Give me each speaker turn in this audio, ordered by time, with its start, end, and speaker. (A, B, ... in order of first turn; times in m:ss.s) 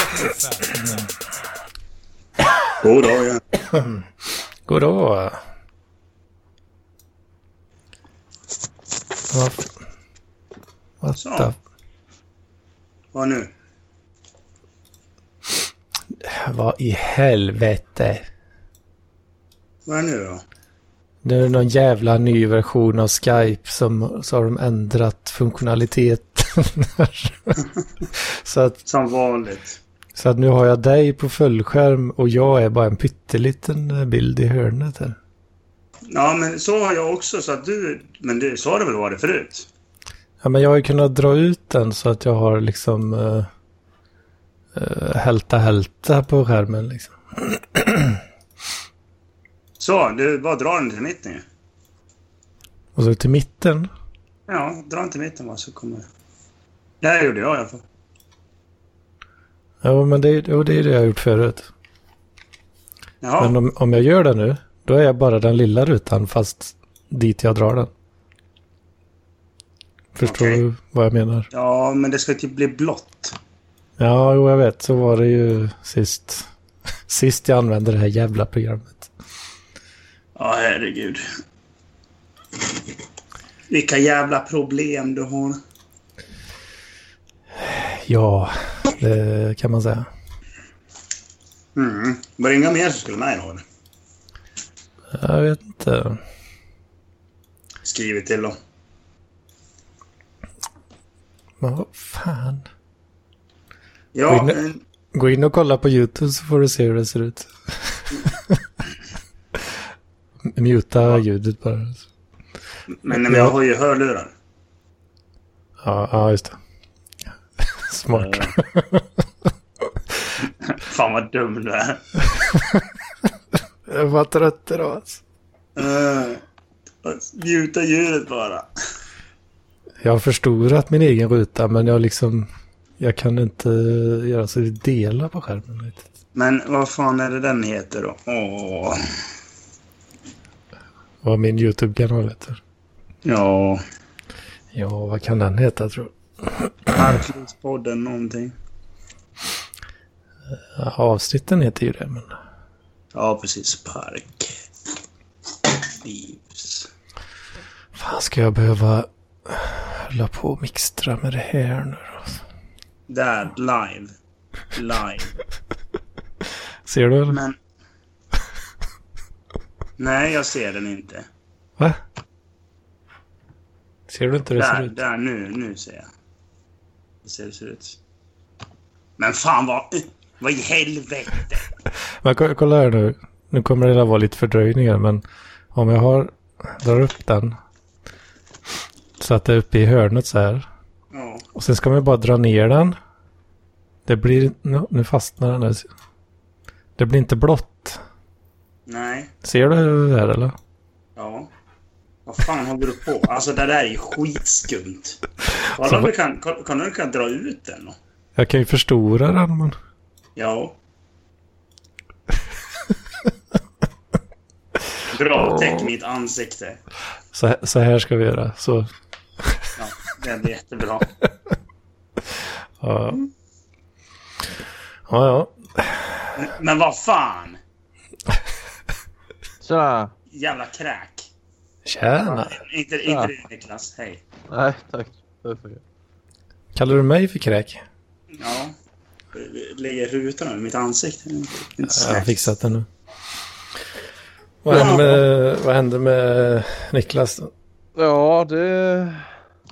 0:00.5-0:01.1 A
0:02.8-0:03.4 B
0:03.7-0:04.1 A
0:04.7-0:05.4 A
0:09.3-0:09.7 A
0:11.0-0:11.6 A
0:11.2-0:11.5 B
0:13.1-0:13.5 B
0:16.2-0:18.2 A
0:19.8-0:20.4 B
0:21.2-0:27.6 A
0:28.2-0:28.8 A
0:28.8-0:29.8 B
0:30.1-0:35.2 A
0:36.1-0:39.6 B
0:40.4-0:43.5 A
0:44.7-0:48.2 A
0:49.8-0:51.4 B
0:53.0-0:53.9 A
0:54.5-0:56.1 B
0:57.0-0:57.8 B
0:59.8-1:01.7 A
1:03.2-1:03.6 B
1:03.4-1:07.9 A
1:10.1-1:11.5 A
1:10.2-1:10.6 B
1:11.5-1:13.3 B
1:14.0-1:16.5 A
1:17.1-1:19.1 A
1:20.4-1:21.2 B
1:23.7-1:25.6 B
1:27.6-1:30.1 A
1:31.8-1:33.6 B
1:35.1-1:36.2 A
1:37.8-1:38.6 B
1:41.6-1:42.6 A
1:44.1-1:44.8 B
1:44.3-1:44.6 A
1:45.1-1:48.6 A
1:50.5-1:52.0 A
1:53.0-1:54.3 B
1:53.1-1:53.5 A
1:55.8-1:56.6 A
1:57.7-1:59.0 A
1:58.1-1:58.5 B
2:00.6-2:02.0 B
2:03.9-2:05.2 A
2:05.8-2:06.4 B
2:07.0-2:08.7 B
2:10.0-2:12.5 A
2:13.0-2:16.0 A
2:16.3-2:19.0 B
2:21.2-2:22.6 A
2:23.2-2:23.8 B
2:24.7-2:26.7 A
2:26.9-2:28.5 B
2:30.8-2:32.3 A
2:33.1-2:34.6 B
2:36.0-2:36.9 B
2:37.9-2:42.4 A
2:43.1-2:44.1 B
2:44.7-2:45.3 B
2:46.8-2:47.4 A
2:47.3-2:47.6 B
2:50.0-2:51.2 B
2:54.1-2:54.9 A
2:54.6-2:56.1 B
2:57.2-2:58.0 B
2:59.2-3:01.6 B
3:02.2-3:05.2 A
3:05.7-3:07.6 A
3:09.2-3:10.6 A
3:11.1-3:11.4 B
3:11.5-3:13.0 A
3:14.0-3:15.9 A
3:17.0-3:18.0 A
3:18.9-3:19.3 B
3:19.4-3:20.5 A
3:21.2-3:21.5 B
3:22.2-3:25.2 B
3:25.7-3:28.0 B
3:25.8-3:26.1 A
3:28.4-3:29.7 A
3:30.4-3:30.7 B
3:35.1-3:36.8 B
3:35.6-3:35.9 A
3:37.3-3:38.9 A
3:39.8-3:41.1 B
3:42.8-3:43.2 A
3:45.1-3:46.2 A
3:46.3-3:47.6 B
3:49.6-3:50.1 C
3:50.3-3:51.3 B
3:51.8-3:52.6 A
3:52.2-3:54.2 B
3:53.0-3:53.3 C
3:54.5-3:55.8 C
3:56.7-3:57.8 A
3:58.4-3:58.7 B
3:59.3-4:02.5 B
4:01.9-4:02.9 A
4:04.6-4:07.5 A
4:04.7-4:05.2 C
4:04.7-4:05.0 B
4:08.0-4:09.3 C